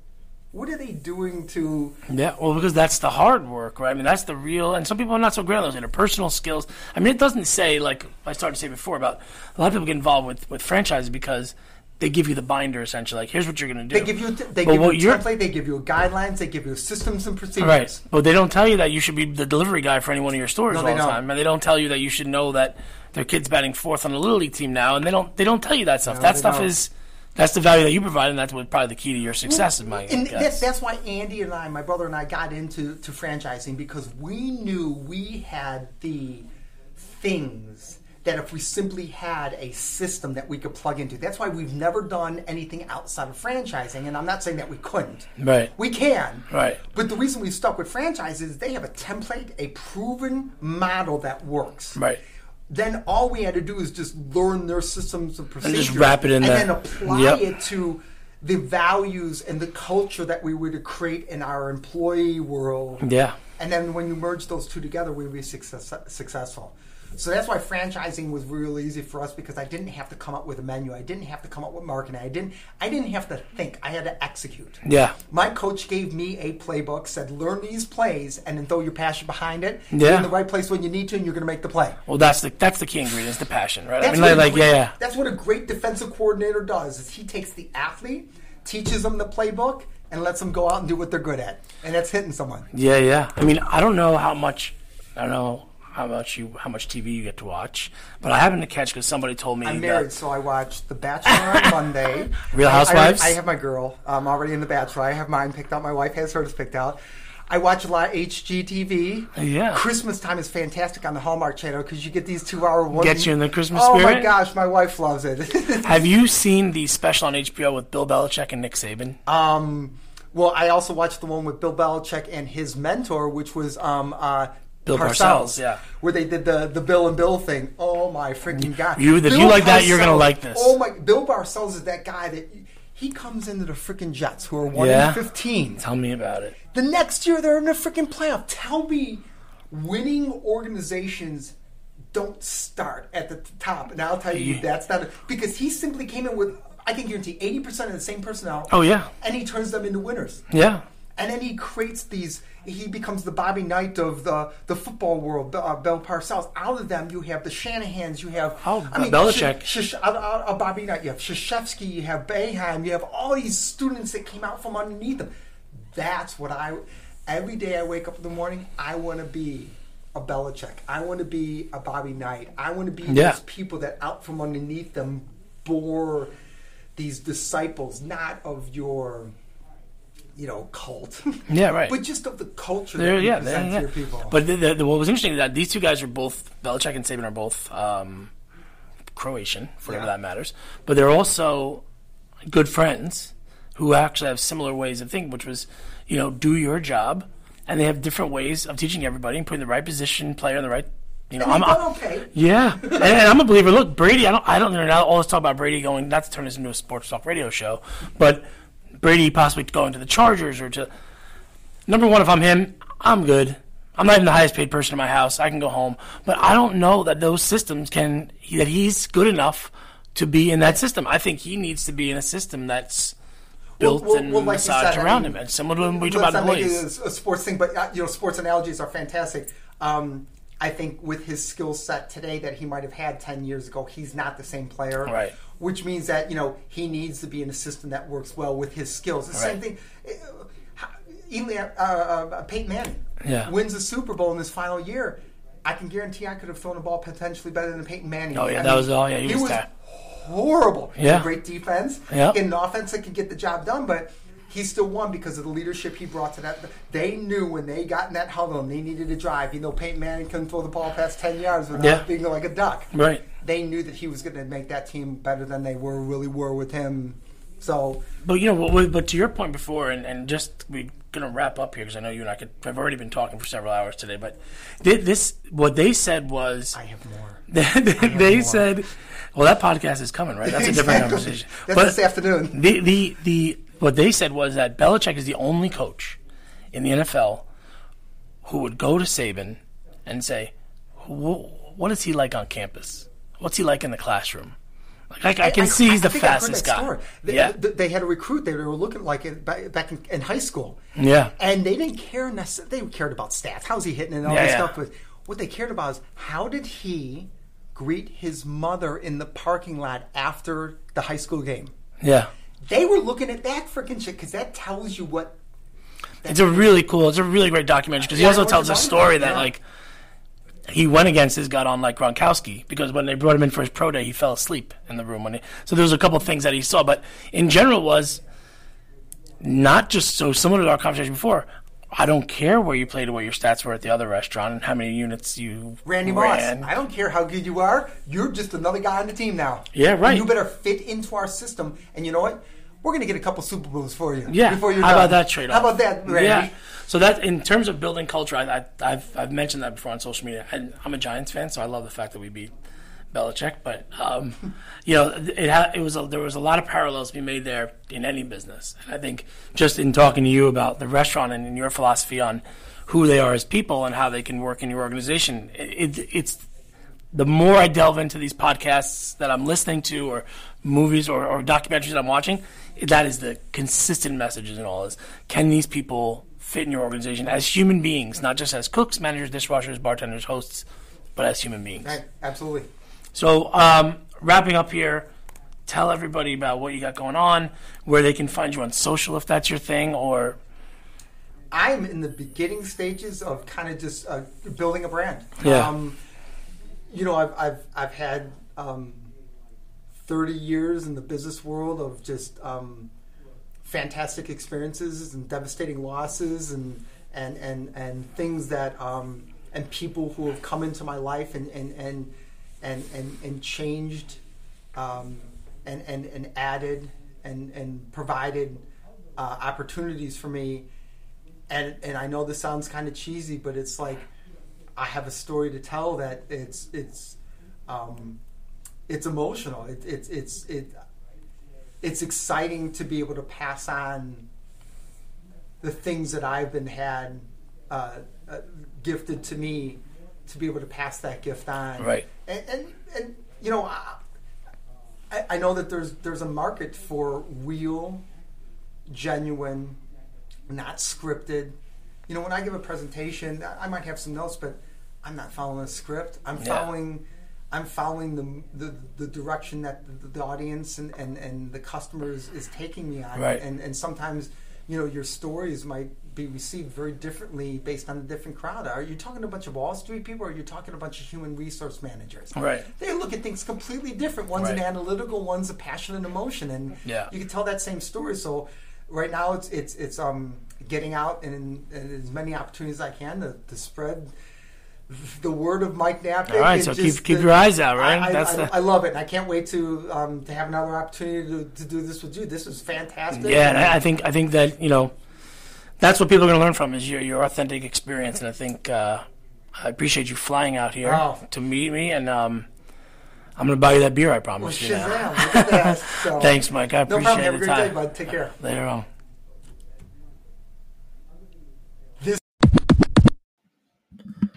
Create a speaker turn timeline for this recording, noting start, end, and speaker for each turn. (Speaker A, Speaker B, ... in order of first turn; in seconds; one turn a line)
Speaker A: 0.5-2.0
Speaker B: 2.1-15.2
Speaker A: 13.9-18.0
Speaker B: 17.6-30.6
Speaker A: 20.7-21.2
Speaker A: 26.1-26.7
Speaker A: 29.4-52.0
Speaker B: 45.4-45.7
Speaker B: 46.5-46.8
Speaker A: 52.7-63.0
Speaker B: 55.6-57.4
Speaker B: 63.0-63.4
Speaker A: 63.6-82.0
Speaker B: 74.8-75.2
Speaker B: 79.9-80.3
Speaker B: 82.1-85.0
Speaker A: 84.0-92.7
Speaker B: 92.7-100.1
Speaker A: 99.6-107.0
Speaker B: 101.3-101.7
Speaker B: 102.3-103.4
Speaker A: 107.5-116.1
Speaker B: 109.3-109.8
Speaker B: 112.9-114.3
Speaker B: 115.8-119.2
Speaker A: 119.3-135.8
Speaker B: 124.9-125.8
Speaker B: 128.9-130.8
Speaker B: 134.7-135.2
Speaker B: 135.8-136.6
Speaker A: 136.7-141.6
Speaker A: 142.1-150.5
Speaker B: 144.3-144.6
Speaker B: 148.7-149.1
Speaker B: 150.5-150.8
Speaker A: 151.2-165.3
Speaker B: 158.6-159.7
Speaker A: 165.9-176.3
Speaker B: 173.1-173.4
Speaker A: 177.0-179.3
Speaker A: 180.4-184.4
Speaker B: 181.5-181.9
Speaker B: 183.0-188.3
Speaker B: 189.1-191.8
Speaker B: 192.5-208.4
Speaker A: 201.4-203.2
Speaker B: 209.0-210.9
Speaker B: 211.9-223.2
Speaker A: 223.8-225.4
Speaker B: 223.8-226.8
Speaker A: 226.0-268.1
Speaker B: 235.1-235.3
Speaker B: 243.2-243.5
Speaker B: 248.3-249.7
Speaker B: 251.0-251.3
Speaker B: 252.1-252.4
Speaker B: 261.7-262.1
Speaker B: 262.9-263.2
Speaker B: 268.2-276.8
Speaker A: 276.7-277.4
Speaker B: 277.5-282.0
Speaker A: 278.0-278.7
Speaker A: 280.4-282.6
Speaker B: 282.5-286.2
Speaker B: 286.7-287.5
Speaker B: 288.4-294.6
Speaker B: 295.1-297.5
Speaker A: 295.4-300.8
Speaker B: 300.9-301.3
Speaker A: 301.4-311.7
Speaker B: 304.2-304.7
Speaker B: 312.0-312.3
Speaker A: 312.7-315.4
Speaker A: 316.2-316.7
Speaker B: 316.3-319.6
Speaker A: 318.0-319.5
Speaker B: 320.7-328.2
Speaker B: 329.4-336.7
Speaker A: 335.9-346.5
Speaker B: 339.7-340.3
Speaker B: 344.3-352.5
Speaker B: 353.1-366.4
Speaker B: 367.1-382.0
Speaker A: 381.8-382.7
Speaker B: 383.1-385.1
Speaker B: 385.7-390.4
Speaker A: 391.5-396.0
Speaker B: 395.4-395.7
Speaker A: 396.9-399.1
Speaker A: 400.0-402.9
Speaker A: 403.6-414.2
Speaker A: 414.8-418.6
Speaker A: 419.2-420.7
Speaker A: 421.5-424.1
Speaker A: 424.8-428.2
Speaker A: 428.9-430.8
Speaker A: 431.8-434.3
Speaker A: 435.6-444.0
Speaker B: 441.8-442.1
Speaker A: 445.1-448.1
Speaker A: 448.9-449.8
Speaker A: 450.5-451.6
Speaker A: 452.1-484.1
Speaker B: 456.4-456.7
Speaker B: 463.2-463.4
Speaker B: 472.4-472.7
Speaker B: 476.9-477.1
Speaker A: 484.9-493.8
Speaker B: 486.3-488.5
Speaker B: 493.1-494.9
Speaker B: 495.8-502.5
Speaker A: 500.8-501.2
Speaker B: 503.4-508.9
Speaker A: 504.4-508.4